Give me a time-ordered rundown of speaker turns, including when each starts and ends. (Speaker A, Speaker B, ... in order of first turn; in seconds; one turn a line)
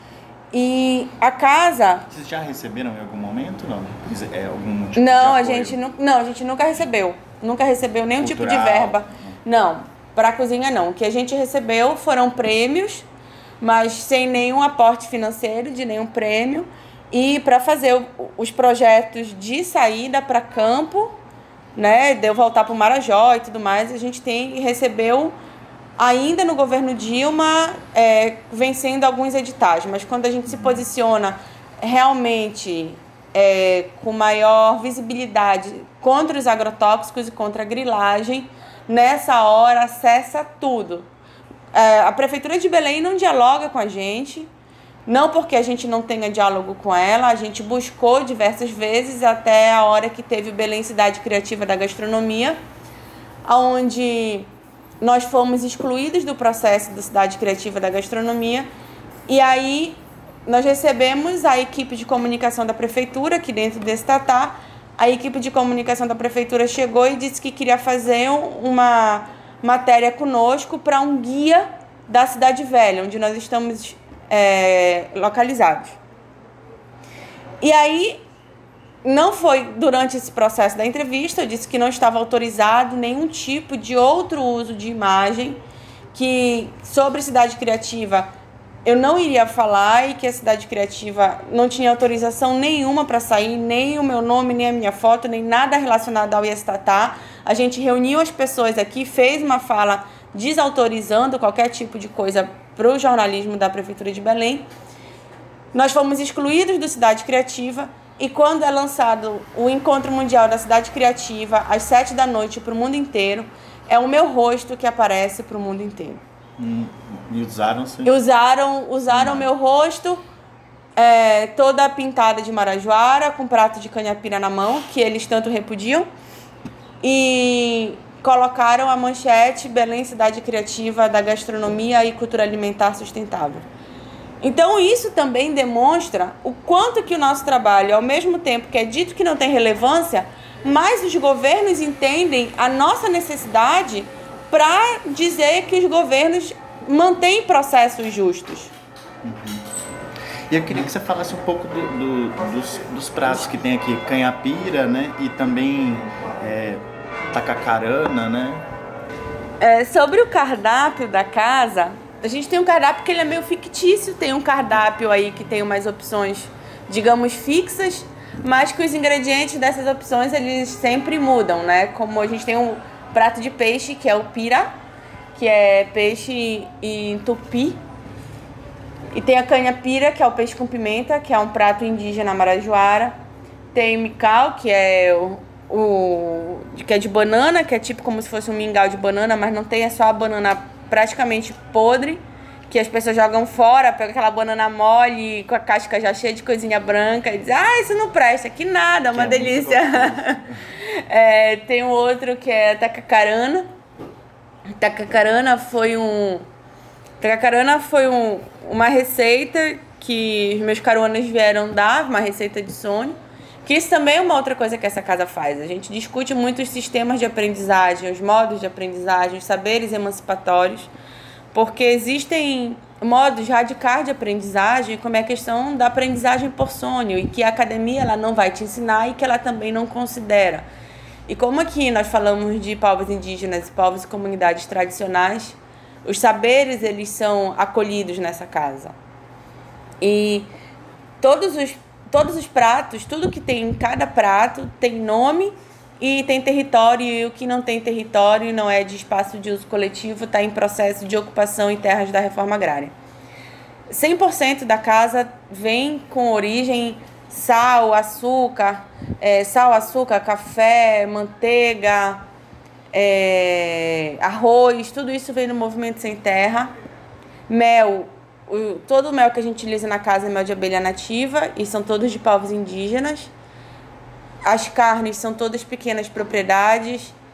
Speaker A: 0.5-2.1
Speaker B: 2.1-5.8
Speaker A: 5.0-13.1
Speaker B: 8.2-9.3
Speaker A: 13.6-21.2
Speaker A: 21.8-25.4
Speaker A: 26.0-41.1
Speaker B: 30.5-30.8
Speaker A: 41.7-44.5
Speaker A: 45.1-52.6
Speaker A: 53.5-54.5
Speaker A: 55.0-58.7
Speaker A: 59.3-76.0
Speaker A: 77.6-78.2
Speaker A: 79.0-85.6
Speaker A: 86.1-88.3
Speaker A: 88.8-104.7
Speaker A: 105.7-116.2
Speaker B: 116.6-118.2
Speaker A: 118.0-120.2
Speaker B: 119.1-119.5
Speaker A: 121.0-126.1
Speaker A: 127.0-133.7
Speaker A: 134.4-148.7
Speaker B: 149.2-149.7
Speaker B: 150.5-158.7
Speaker A: 159.6-174.7
Speaker A: 175.3-177.8
Speaker A: 179.1-183.2
Speaker A: 183.7-203.7
Speaker B: 199.1-200.5
Speaker A: 204.8-206.4
Speaker A: 207.2-220.9
Speaker A: 221.5-230.7
Speaker A: 231.3-238.9
Speaker A: 240.0-240.5
Speaker A: 241.2-252.9
Speaker A: 253.9-262.3
Speaker A: 262.9-266.7
Speaker A: 267.5-273.3
Speaker A: 274.4-277.2